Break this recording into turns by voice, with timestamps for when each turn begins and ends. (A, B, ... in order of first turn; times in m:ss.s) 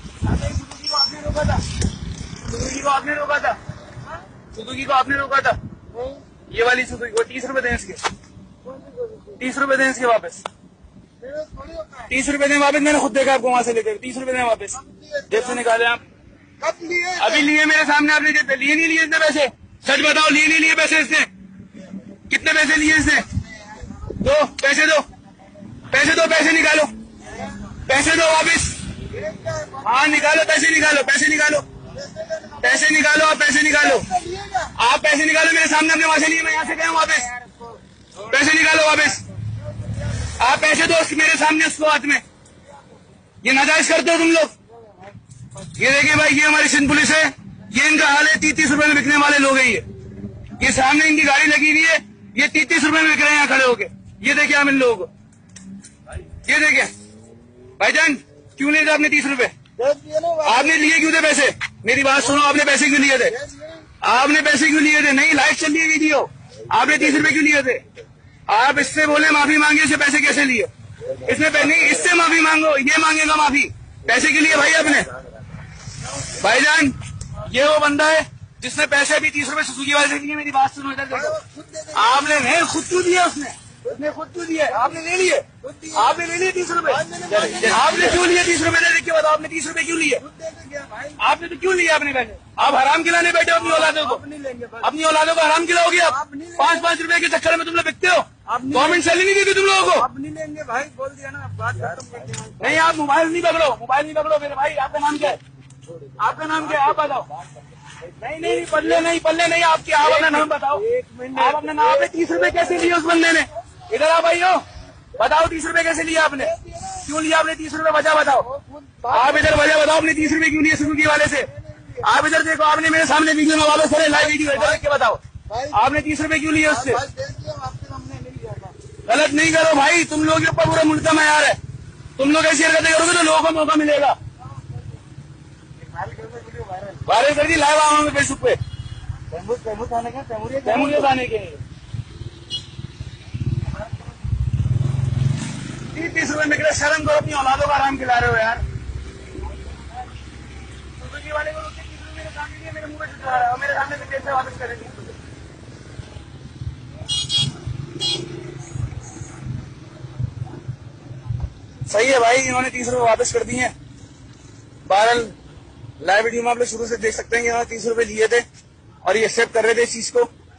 0:00.3-0:01.6 A
0:02.5-0:03.6 A
0:04.5-0:05.6 A
0:06.5-0:08.0 A
0:08.8-0:09.4 B
0:09.4-0:10.4 A
0:11.2-0:12.1 B
0:12.1-0:16.0 A
0:14.8-0:15.6 B
0:16.6-0:17.4 B
0:17.2-0:21.3 A
0:22.3-0:23.3 A
0:24.2-0:25.0 A
0:25.9-0:26.9 A
0:27.8-0:28.8 A
0:29.2-0:29.8 B
0:29.8-0:31.6 A
0:32.0-0:32.6 B
0:32.6-0:34.2 A
0:33.8-0:34.7 B
0:34.7-0:37.3 A
0:38.2-0:39.2 A
0:40.4-0:42.2 A
0:43.4-0:44.5 A
0:45.8-0:49.8 A
0:50.6-0:55.1 A
0:56.4-0:56.9 A
0:57.8-0:59.5 A
0:59.8-1:00.5 B
1:00.4-1:03.4 A
1:03.4-1:03.8 B
1:04.0-1:07.8 A
1:08.5-1:15.1 A
1:16.4-1:21.4 A
1:21.1-1:22.5 B
1:21.9-1:30.2 A
1:23.8-1:28.2 B
1:30.2-1:31.3 B
1:31.2-1:34.2 A
1:33.5-1:34.9 B
1:34.8-1:40.1 A
1:36.0-1:36.9 B
1:38.3-1:42.9 B
1:42.6-1:45.4 A
1:46.2-1:47.3 A
1:48.2-1:54.6 A
1:50.0-1:52.9 B
1:55.2-1:58.5 A
1:56.4-1:57.0 B
1:58.4-1:59.8 B
1:59.0-2:07.0 A
2:01.5-2:02.1 B
2:04.2-2:04.8 B
2:05.5-2:05.8 B
2:06.7-2:08.7 B
2:09.0-2:11.6 A
2:12.2-2:14.2 A
2:16.0-2:17.0 B
2:17.0-2:18.6 A
2:19.3-2:21.1 B
2:20.6-2:21.6 A
2:25.9-2:28.6 A
2:31.0-2:35.0 A
2:41.8-2:43.7 A
2:44.8-2:45.3 A
2:46.0-2:48.4 A
2:49.0-2:50.3 A